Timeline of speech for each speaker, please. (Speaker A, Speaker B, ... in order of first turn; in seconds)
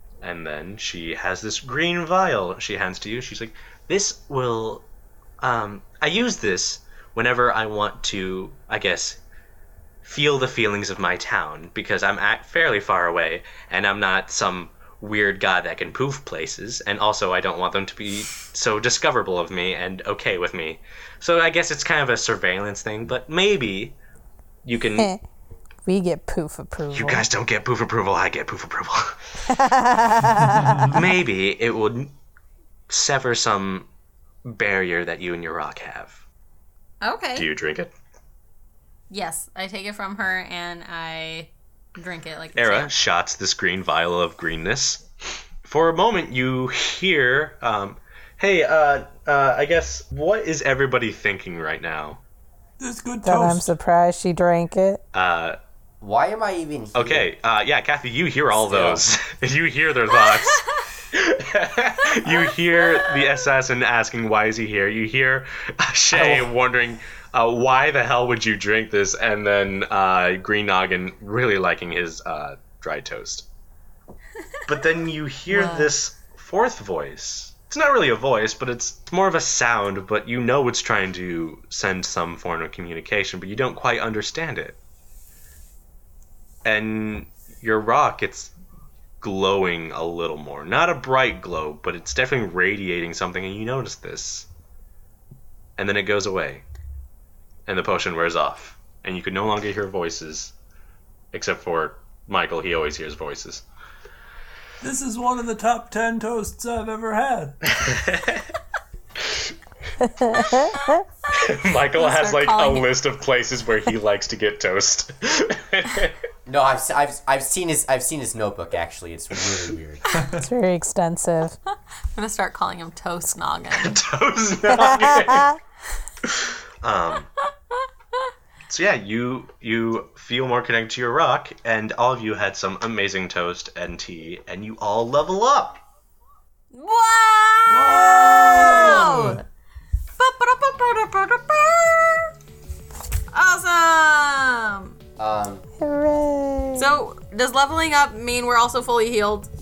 Speaker A: 0.2-4.8, 5.4-9.2, 10.0-24.0, 24.6-25.1, 26.9-29.2, 30.8-32.1, 32.9-33.9, 34.5-36.2, 37.4-37.9, 42.5-45.0, 45.6-52.2, 55.1-55.6, 56.9-73.5, 74.7-84.8, 86.7-88.5, 89.2-94.5, 95.8-96.6, 97.7-100.5, 101.3-103.6, 107.7-108.5, 111.3-116.2, 123.8-125.6, 126.4-127.3, 128.7-135.8
Speaker B: 25.9-27.3, 29.5-31.0, 53.2-55.0, 110.0-111.0, 120.4-121.6, 145.8-147.0
Speaker C: 30.5-30.9, 52.8-53.7, 104.8-107.7, 120.2-120.5, 137.7-139.4
Speaker D: 37.0-37.5, 39.1-42.9, 60.3-60.7, 75.5-75.9, 111.8-112.9, 120.1-120.3, 122.2-124.0, 136.7-139.4, 140.2-142.3, 143.3-145.0, 146.8-149.5
Speaker E: 56.0-57.3, 58.5-59.0, 116.5-120.0, 145.2-145.6